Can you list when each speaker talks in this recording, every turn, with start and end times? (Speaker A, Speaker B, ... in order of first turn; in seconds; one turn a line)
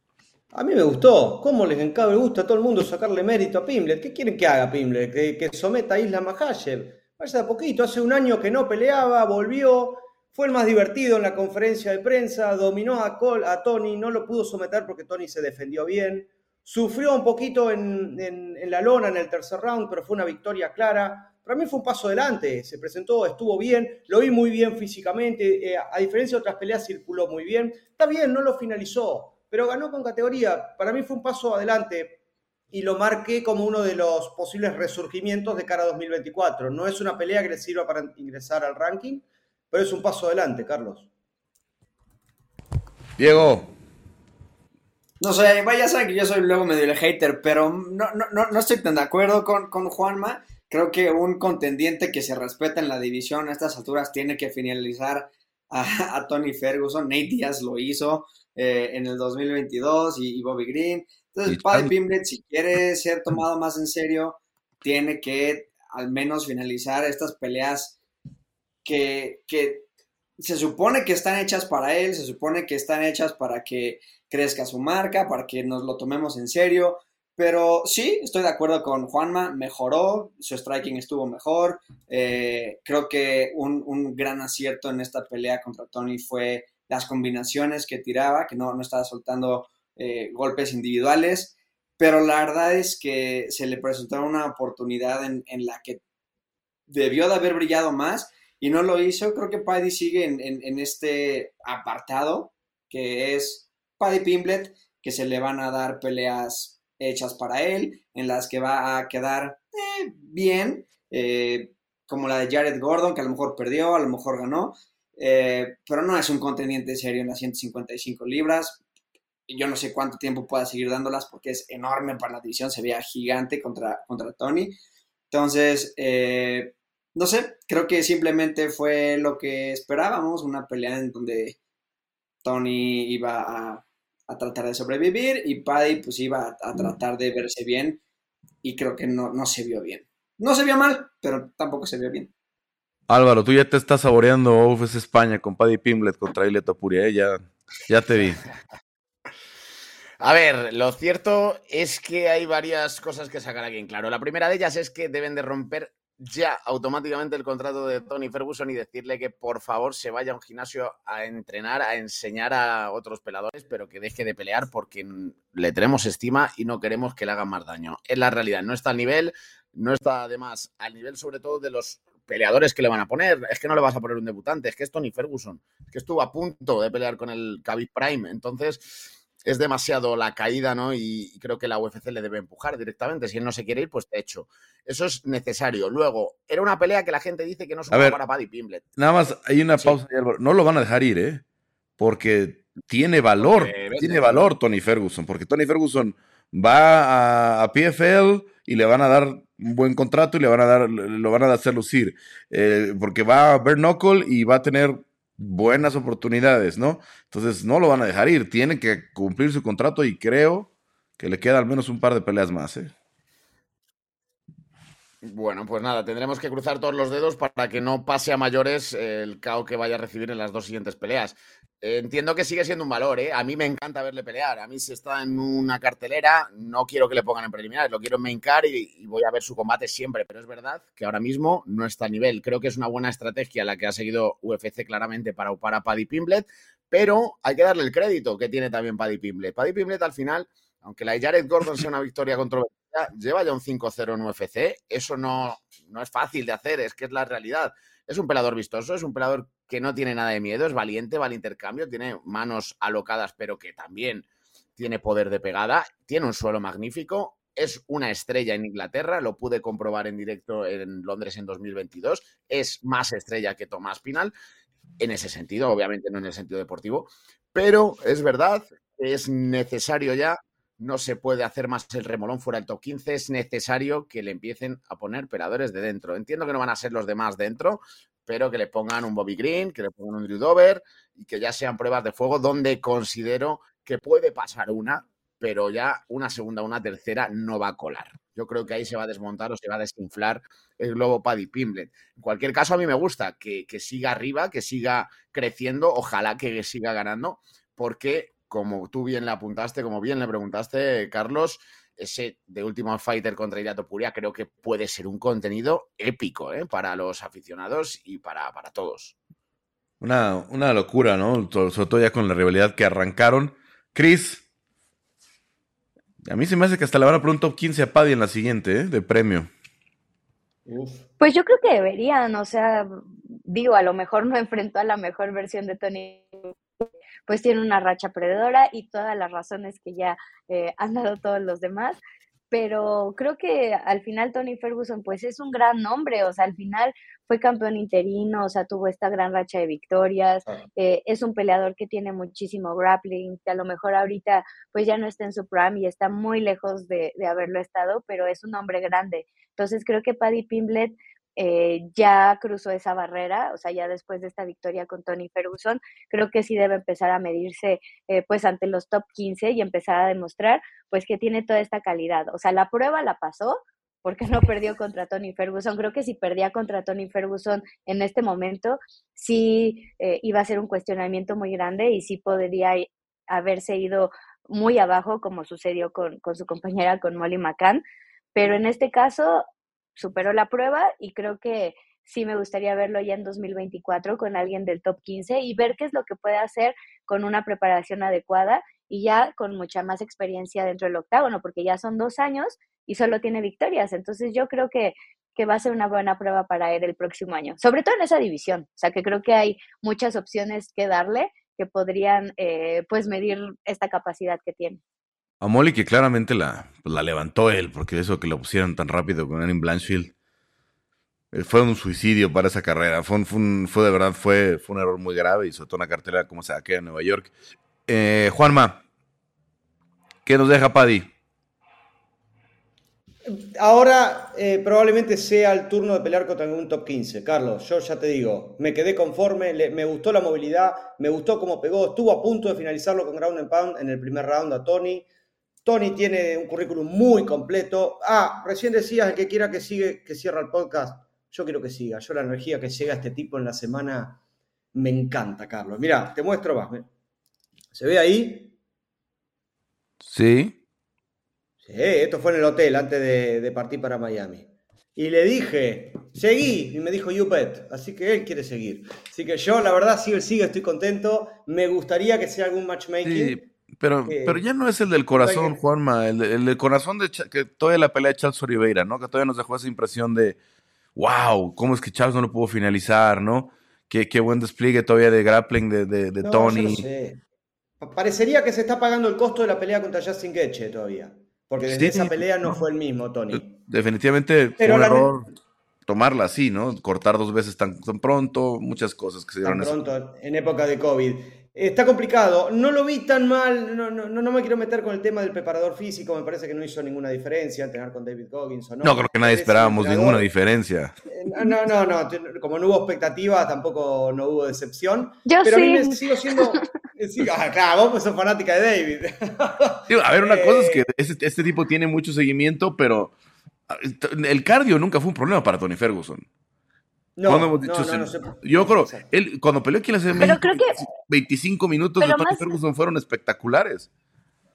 Speaker A: 0.5-41.1
Speaker B: 43.2-43.7
Speaker C: 45.2-68.0
Speaker B: 61.5-61.9
Speaker C: 68.8-69.9
Speaker C: 70.4-96.0
Speaker C: 96.9-118.8
Speaker C: 119.5-124.8
Speaker C: 125.3-131.6
Speaker C: 132.4-138.0
Speaker C: 138.6-142.3
Speaker B: 143.1-148.4
Speaker D: 150.2-178.9
Speaker D: 179.4-188.9
Speaker B: 187.9-188.2
Speaker B: 188.9-191.4
Speaker B: 192.0-212.9
Speaker D: 193.4-194.5
Speaker D: 215.2-264.3
Speaker D: 265.0-309.1
Speaker B: 310.0-314.4
Speaker B: 316.2-319.5
Speaker A: 320.7-321.1
Speaker E: 321.2-322.9
Speaker E: 323.4-332.0
Speaker E: 332.5-377.8
Speaker E: 378.4-379.4
Speaker E: 380.0-404.8
Speaker B: 405.4-410.1
Speaker B: 411.3-417.3
Speaker B: 417.9-418.8
Speaker B: 420.3-421.1
Speaker A: 423.3-435.1
Speaker A: 435.6-444.2
Speaker A: 444.8-446.9
Speaker A: 447.7-448.5
Speaker B: 450.0-450.6
Speaker A: 451.6-463.4
Speaker B: 463.0-470.4
Speaker A: 464.1-464.4
Speaker A: 465.1-465.6
Speaker B: 471.0-476.9
Speaker A: 476.2-477.2
Speaker A: 477.8-483.5
Speaker B: 481.6-482.2
Speaker B: 483.3-485.3
Speaker A: 484.6-485.1
Speaker B: 485.9-489.8
Speaker A: 489.4-500.2
Speaker B: 498.8-500.9
Speaker A: 501.1-510.9
Speaker E: 505.3-506.7
Speaker B: 509.9-513.1
Speaker B: 513.7-516.3
Speaker A: 517.2-519.1
Speaker B: 517.3-523.9
Speaker E: 520.2-520.9
Speaker E: 522.0-522.5